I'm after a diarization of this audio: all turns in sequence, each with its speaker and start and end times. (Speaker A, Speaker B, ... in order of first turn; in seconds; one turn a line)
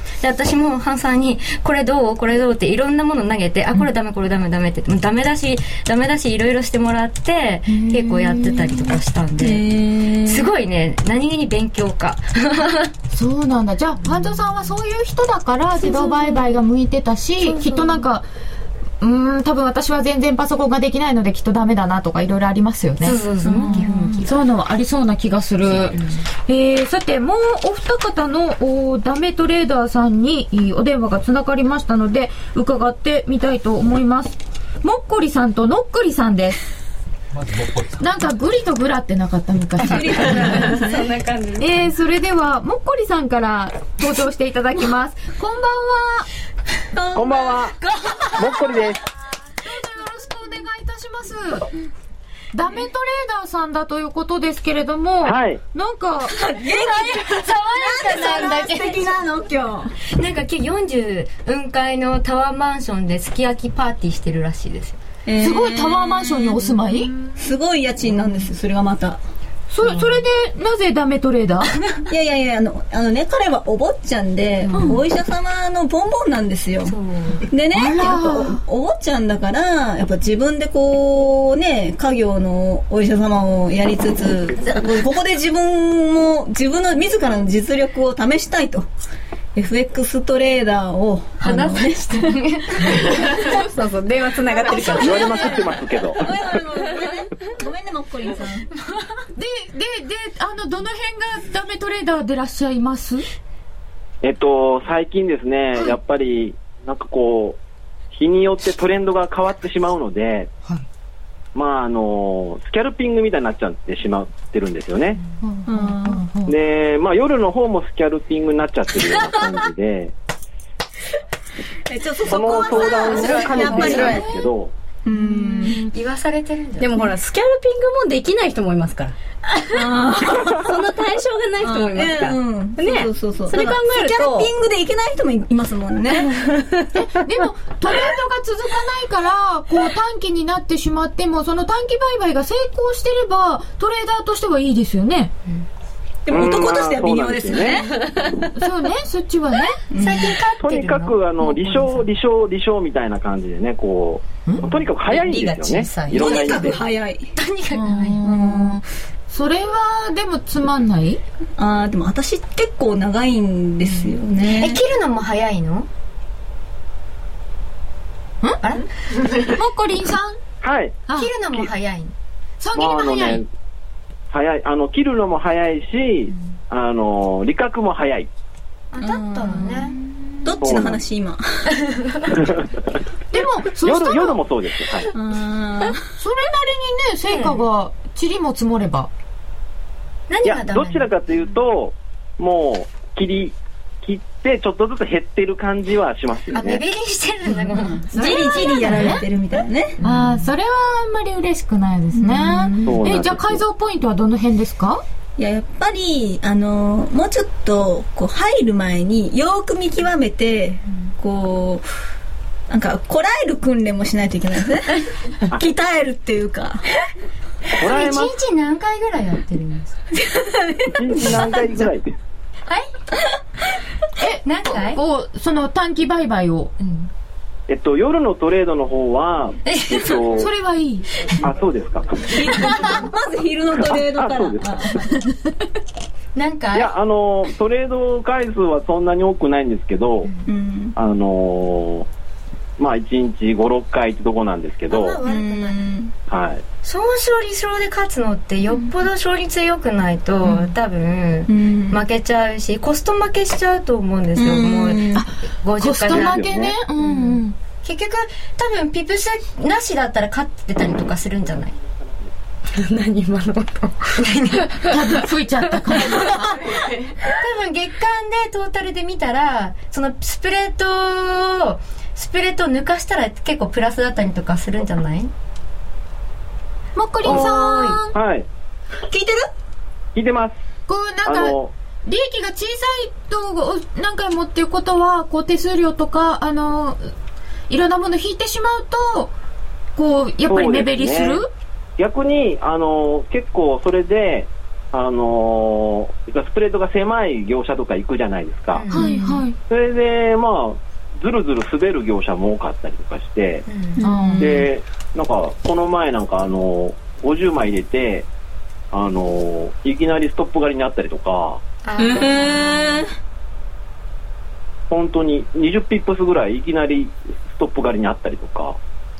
Speaker A: 0.2-9.7
Speaker B: 7.7-8.9
Speaker C: 9.4-10.5
Speaker A: 10.2-12.9
Speaker B: 13.1-18.2
Speaker A: 15.8-16.4
Speaker A: 17.4-18.0
Speaker B: 19.0-36.6
Speaker A: 23.0-24.3
Speaker C: 23.4-24.2
Speaker A: 25.9-26.2
Speaker B: 38.0-40.8
Speaker C: 39.8-41.1
Speaker D: 40.2-41.9
Speaker B: 41.6-46.3
Speaker B: 47.0-48.8
Speaker C: 47.1-47.5
Speaker E: 47.1-47.8
Speaker E: 48.4-49.0
Speaker B: 49.6-51.7
Speaker B: 52.5-56.4
Speaker E: 55.2-55.6
Speaker C: 56.3-59.9
Speaker A: 56.9-59.1
Speaker A: 60.1-65.0
Speaker C: 65.2-66.8
Speaker B: 65.4-67.1
Speaker C: 67.3-69.2
Speaker B: 69.7-72.0
Speaker A: 69.8-70.2
Speaker C: 72.0-76.9
Speaker A: 76.8-77.5
Speaker C: 77.5-88.9
Speaker B: 77.7-78.6
Speaker C: 89.5-93.0
Speaker A: 91.4-93.5
Speaker D: 93.3-95.7
Speaker C: 94.5-98.7
Speaker E: 95.0-96.2
Speaker B: 99.4-103.2
Speaker E: 104.2-107.6
Speaker E: 108.1-110.5
Speaker E: 111.5-115.2
Speaker B: 115.4-116.5
Speaker C: 115.7-116.3
Speaker E: 116.5-120.1
Speaker C: 121.9-124.3
Speaker E: 122.3-124.7
Speaker A: 123.1-123.5
Speaker B: 123.4-124.5
Speaker C: 125.0-125.8
Speaker B: 125.1-125.8
Speaker A: 125.6-126.9
Speaker D: 126.8-129.1
Speaker C: 129.7-131.0
Speaker D: 130.4-134.5
Speaker C: 131.6-136.7
Speaker B: 136.9-145.3
Speaker C: 146.2-148.1
Speaker E: 146.3-147.9
Speaker B: 148.5-149.8
Speaker C: 149.9-150.4
Speaker A: 150.0-152.1
Speaker E: 150.6-156.8
Speaker A: 155.1-156.8
Speaker C: 156.1-157.3
Speaker A: 157.3-158.2
Speaker B: 157.8-161.2
Speaker C: 158.1-158.8
Speaker C: 161.6-164.8
Speaker A: 164.4-165.9
Speaker A: 168.6-169.5
Speaker B: 169.5-170.4
Speaker E: 170.6-171.7
Speaker B: 171.1-171.3
Speaker A: 171.1-172.1
Speaker B: 172.6-173.4
Speaker E: 172.7-173.4
Speaker E: 174.3-178.3
Speaker A: 178.9-179.9
Speaker C: 179.0-181.8
Speaker E: 180.6-181.0
Speaker A: 181.8-182.3
Speaker B: 183.3-184.4
Speaker E: 183.8-185.1
Speaker C: 185.1-186.0
Speaker B: 186.2-189.1
Speaker A: 187.3-187.6
Speaker A: 190.3-191.1
Speaker E: 190.4-196.8
Speaker A: 196.5-199.2
Speaker C: 198.1-199.9
Speaker B: 198.2-199.2
Speaker A: 200.0-200.4
Speaker B: 200.0-205.0
Speaker C: 202.1-203.0
Speaker E: 202.8-203.6
Speaker C: 205.4-211.8
Speaker C: 212.7-216.8
Speaker E: 217.8-218.3
Speaker A: 217.8-220.0
Speaker C: 220.1-221.8
Speaker E: 220.9-222.1
Speaker B: 224.2-226.7
Speaker A: 224.4-225.0
Speaker A: 226.8-227.1
Speaker E: 227.7-230.5
Speaker A: 229.6-230.2
Speaker B: 230.3-231.2
Speaker E: 231.4-232.4
Speaker C: 232.3-235.3
Speaker E: 233.9-234.8
Speaker A: 236.3-236.9
Speaker E: 236.7-240.3
Speaker C: 240.4-240.9
Speaker E: 240.9-242.1
Speaker E: 242.8-245.2
Speaker A: 244.9-245.8
Speaker C: 245.2-246.1
Speaker E: 246.3-246.6
Speaker A: 246.8-256.4
Speaker C: 251.5-252.0
Speaker C: 254.3-255.3
Speaker B: 255.1-257.5
Speaker E: 256.1-256.8
Speaker A: 257.0-261.7
Speaker D: 262.7-264.2
Speaker A: 264.2-264.8
Speaker B: 264.9-266.8
Speaker A: 267.2-275.3
Speaker B: 276.9-278.2
Speaker A: 277.2-278.0
Speaker E: 277.2-277.6
Speaker E: 278.1-278.4
Speaker E: 280.1-280.6
Speaker B: 280.9-287.1
Speaker E: 281.2-281.7
Speaker B: 287.7-289.3
Speaker B: 290.0-291.5
Speaker E: 290.5-291.4
Speaker E: 292.0-298.9
Speaker A: 298.7-299.1
Speaker B: 298.9-299.6
Speaker E: 299.7-303.6
Speaker A: 303.7-304.0
Speaker C: 304.0-304.5
Speaker B: 304.0-304.6
Speaker E: 304.4-308.3
Speaker E: 308.9-311.6
Speaker A: 311.8-313.0
Speaker C: 312.0-313.1
Speaker E: 314.9-318.8